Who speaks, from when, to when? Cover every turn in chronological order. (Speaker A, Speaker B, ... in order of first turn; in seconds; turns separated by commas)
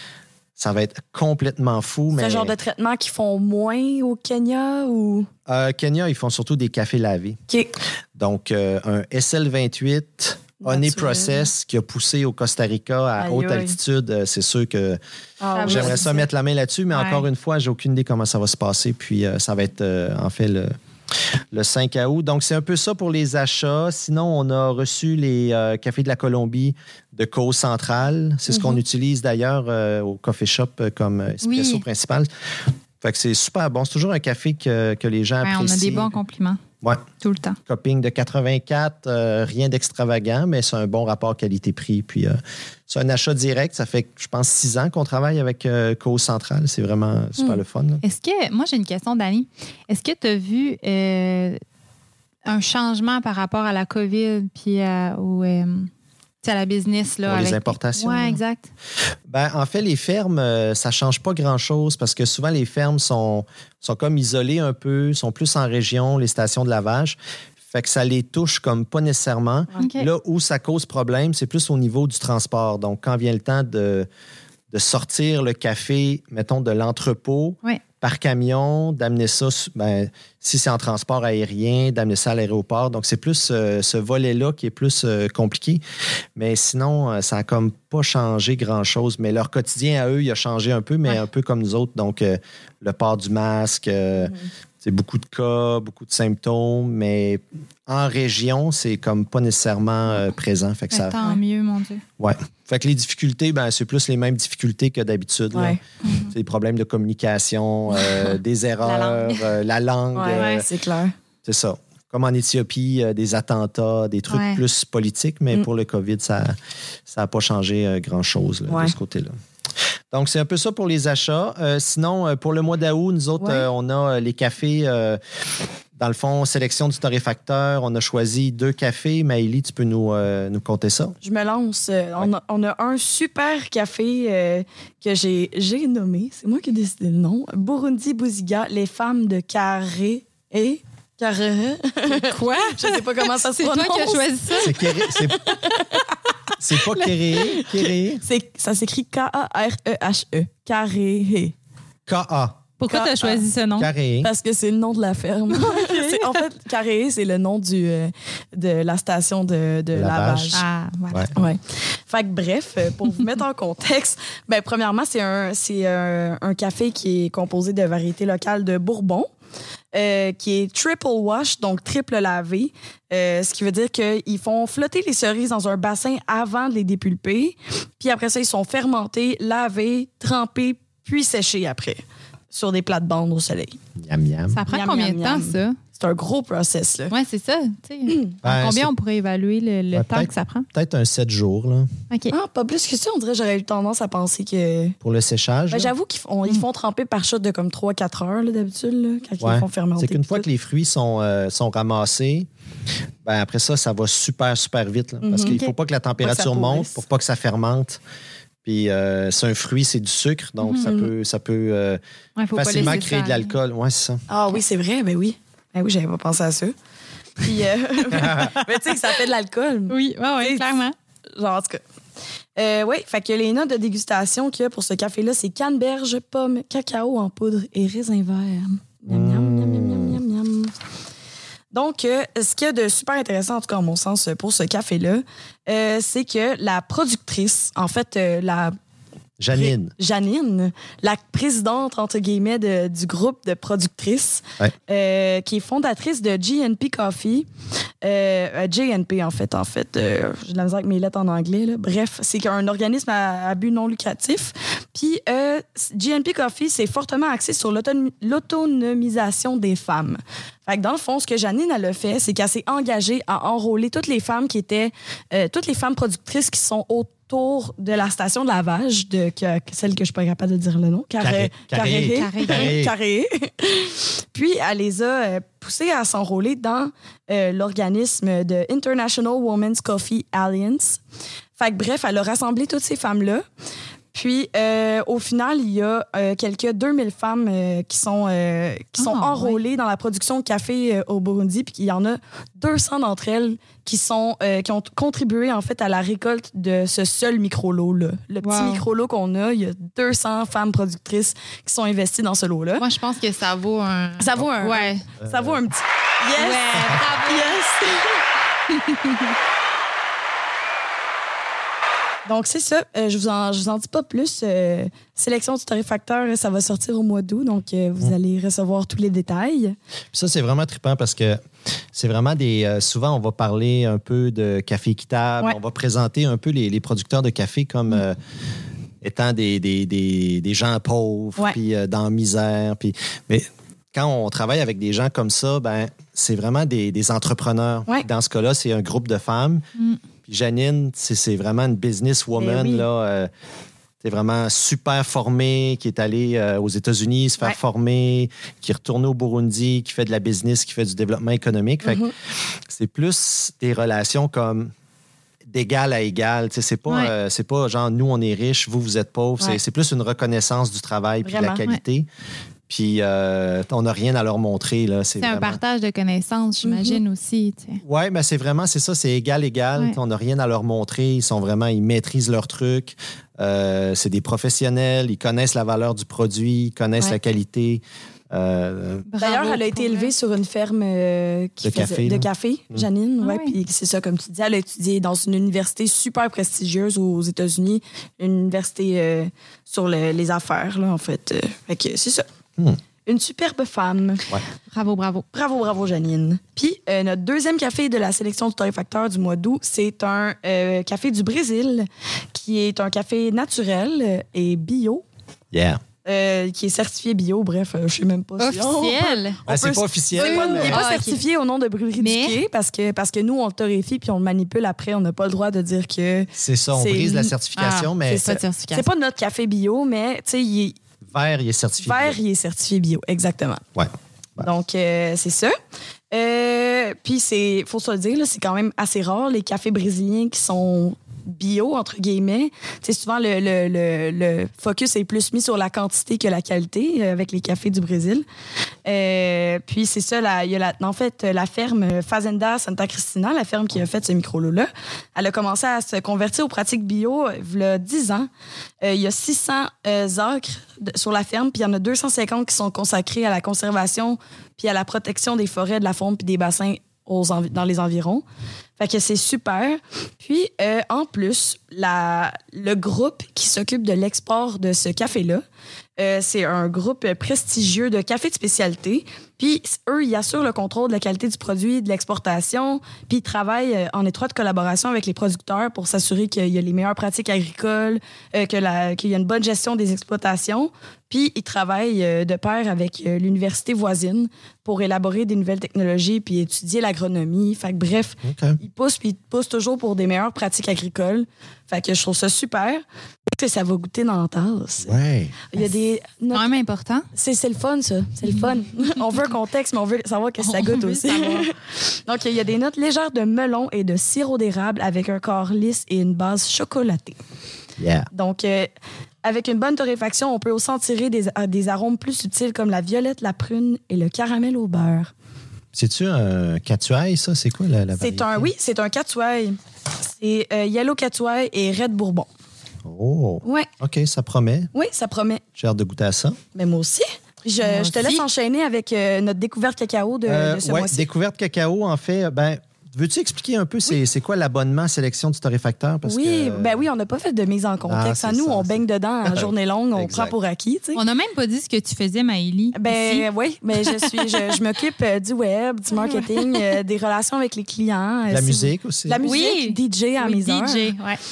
Speaker A: 0.6-2.5, Speaker B: 2.1-5.3, Speaker A: 5.5-7.4, Speaker A: 8.2-15.0, Speaker B: 10.6-11.5, Speaker B: 13.2-13.7, Speaker B: 15.4-16.2, Speaker C: 15.5-16.1, Speaker A: 15.6-20.8, Speaker C: 16.9-17.2, Speaker A: 21.5-32.3, Speaker C: 31.4-31.8, Speaker A: 33.0-36.1, Speaker C: 35.4-36.6, Speaker C: 37.2-37.6, Speaker A: 37.7-48.0, Speaker C: 48.0-51.6, Speaker C: 52.4-55.9, Speaker C: 56.4-58.7, Speaker A: 57.2-58.4, Speaker A: 59.3-67.2, Speaker A: 67.7-74.1, Speaker C: 69.8-70.1, Speaker A: 74.7-85.8, Speaker A: 86.3-101.1, Speaker B: 94.2-94.5, Speaker C: 100.9-102.0, Speaker A: 102.2-105.8, Speaker B: 105.5-105.8, Speaker C: 106.0-106.3, Speaker A: 106.3-110.7, Speaker C: 108.8-109.5, Speaker B: 110.1-111.1, Speaker C: 110.3-110.6, Speaker A: 111.4-116.5, Speaker C: 114.3-114.6, Speaker A: 117.1-119.3, Speaker B: 118.7-118.9, Speaker A: 120.1-125.2, Speaker B: 123.4-123.7, Speaker A: 126.0-131.2, Speaker B: 131.2-146.1, Speaker C: 142.1-144.9, Speaker A: 144.6-145.4, Speaker A: 146.6-148.2, Speaker C: 146.9-147.6, Speaker B: 148.2-151.5, Speaker A: 152.1-152.7, Speaker C: 152.8-153.9, Speaker B: 152.9-153.4, Speaker A: 153.8-154.3, Speaker B: 154.2-160.6, Speaker C: 155.5-156.4, Speaker A: 159.9-161.3, Speaker C: 160.5-161.5, Speaker B: 161.3-169.3, Speaker B: 169.9-183.8, Speaker A: 184.0-184.6, Speaker C: 184.5-185.8, Speaker B: 184.7-187.1, Speaker C: 187.1-190.7, Speaker A: 188.4-188.9, Speaker A: 189.9-191.9, Speaker B: 192.3-194.9, Speaker A: 195.0-195.9, Speaker B: 195.7-200.4, Speaker A: 199.4-202.5, Speaker A: 203.2-208.0, Speaker B: 205.2-205.6, Speaker C: 205.5-205.7, Speaker B: 206.2-207.0, Speaker A: 208.6-212.0, Speaker C: 210.6-210.9, Speaker B: 210.8-211.1, Speaker C: 212.4-213.5, Speaker A: 212.5-214.2, Speaker B: 214.3-216.7, Speaker B: 217.4-220.7, Speaker A: 218.1-218.5, Speaker C: 219.9-220.9, Speaker B: 221.4-221.8, Speaker B: 222.6-230.7, Speaker A: 229.1-230.2, Speaker B: 231.7-238.8, Speaker A: 239.4-239.9, Speaker B: 239.5-247.5, Speaker B: 248.0-281.0, Speaker A: 271.2-272.9, Speaker C: 271.9-272.8, Speaker B: 281.6-283.4, Speaker B: 284.1-302.8, Speaker C: 289.0-289.6, Speaker C: 298.4-298.8, Speaker C: 302.8-305.1, Speaker B: 304.2-308.2, Speaker A: 305.2-305.6, Speaker C: 306.4-307.6, Speaker C: 308.7-309.3, Speaker B: 312.2-319.8, Speaker A: 320.1-321.4, Speaker A: 321.9-328.2, Speaker A: 329.0-339.6, Speaker A: 340.3-343.3, Speaker B: 342.4-342.9, Speaker A: 344.0-352.0, Speaker B: 351.8-352.1, Speaker A: 352.7-354.7, Speaker A: 355.5-362.1, Speaker C: 356.9-357.1, Speaker B: 361.2-361.6, Speaker A: 362.7-365.6, Speaker C: 365.2-367.8, Speaker B: 366.6-367.0, Speaker A: 367.8-379.1, Speaker C: 379.1-380.1, Speaker B: 379.2-392.2, Speaker A: 381.6-382.8, Speaker C: 383.2-383.5, Speaker B: 393.1-394.2, Speaker C: 394.7-395.2, Speaker B: 395.3-405.0, Speaker A: 405.5-405.8, Speaker B: 406.0-417.3, Speaker C: 408.4-409.4, Speaker A: 409.5-410.8, Speaker C: 410.2-411.2, Speaker C: 412.0-412.4, Speaker A: 416.3-418.2, Speaker C: 417.6-418.9, Speaker B: 418.1-420.8, Speaker A: 421.1-422.2, Speaker B: 421.8-423.6, Speaker A: 423.8-424.5, Speaker B: 424.4-425.5, Speaker B: 426.1-438.2, Speaker B: 438.9-448.3, Speaker B: 448.8-458.2, Speaker B: 458.8-465.4, Speaker B: 466.0-494.9, Speaker A: 488.2-488.6, Speaker A: 494.8-495.4, Speaker B: 495.5-496.5, Speaker C: 496.3-497.1, Speaker B: 497.1-507.2, Speaker C: 500.4-501.5, Speaker A: 507.8-508.1, Speaker B: 508.1-508.7, Speaker B: 509.2-515.1, Speaker A: 515.7-518.5, Speaker B: 517.9-522.3, Speaker A: 522.9-524.7, Speaker B: 523.4-523.7, Speaker B: 524.7-525.4, Speaker A: 525.6-526.4, Speaker B: 526.5-531.0, Speaker C: 527.6-528.2, Speaker A: 530.2-536.8, Speaker B: 536.0-541.0, Speaker A: 537.9-540.3, Speaker C: 540.9-543.3, Speaker B: 542.7-550.9, Speaker C: 543.8-544.5, Speaker C: 546.0-546.6, Speaker A: 548.3-549.2, Speaker C: 549.2-551.2